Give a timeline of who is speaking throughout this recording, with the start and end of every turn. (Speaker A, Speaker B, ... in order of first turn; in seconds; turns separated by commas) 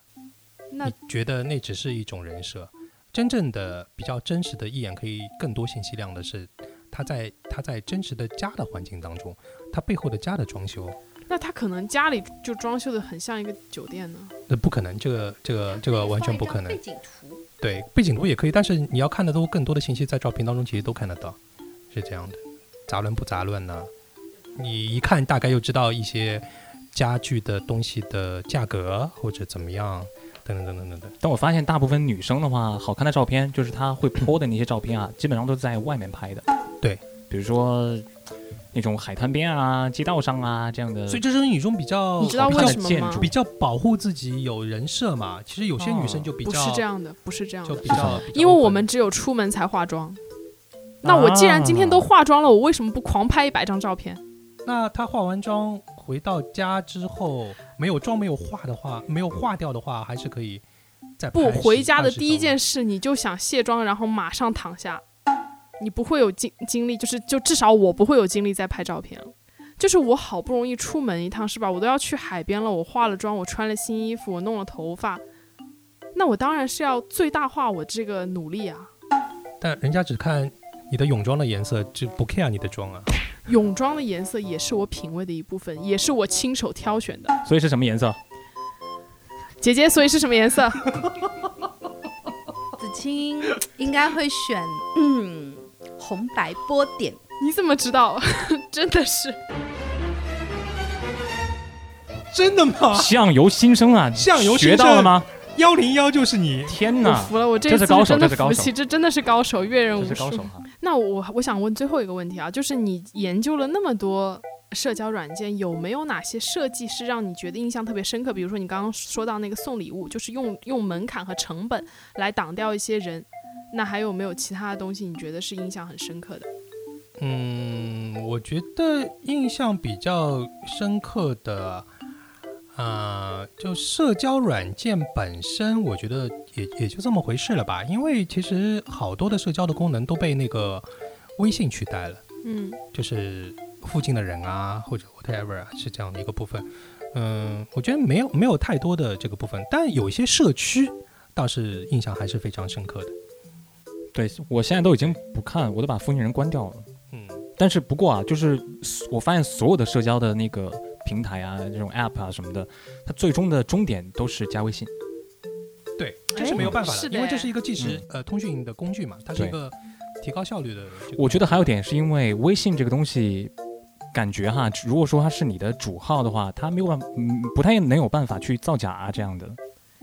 Speaker A: 0.8-11.0, Speaker B: 11.3-14.3, Speaker A: 14.5-16.8, Speaker C: 15.7-17.4, Speaker A: 17.6-21.4, Speaker A: 21.9-23.9, Speaker A: 24.6-31.1, Speaker D: 31.2-36.5, Speaker D: 37.3-38.1, Speaker D: 38.7-41.2, Speaker A: 41.1-46.8, Speaker B: 42.2-43.3, Speaker D: 42.2-43.3, Speaker D: 45.8-46.3, Speaker B: 46.4-50.2, Speaker A: 47.6-48.9, Speaker D: 47.9-48.2, Speaker D: 51.0-52.1, Speaker B: 51.0-54.2, Speaker A: 54.6-60.6, Speaker A: 61.2-62.6, Speaker B: 61.3-65.0, Speaker B: 65.8-75.2, Speaker B: 76.1-78.9, Speaker A: 79.6-83.1, Speaker B: 83.5-87.4, Speaker D: 87.4-88.2, Speaker B: 89.6-90.9, Speaker C: 92.8-97.2, Speaker B: 97.4-99.4, Speaker A: 102.3-103.1, Speaker D: 102.9-105.3, Speaker A: 104.1-106.8, Speaker D: 106.7-108.7, Speaker B: 107.0-126.5, Speaker D: 110.0-110.7, Speaker A: 127.2-131.9, Speaker A: 132.7-142.2, Speaker B: 142.4-142.8, Speaker A: 142.9-153.1, Speaker D: 154.1-156.9, Speaker A: 157.1-157.4, Speaker D: 157.6-164.9, Speaker A: 166.0-171.7, Speaker B: 166.3-167.5, Speaker D: 167.8-168.0, Speaker D: 171.1-173.5, Speaker D: 174.1-179.6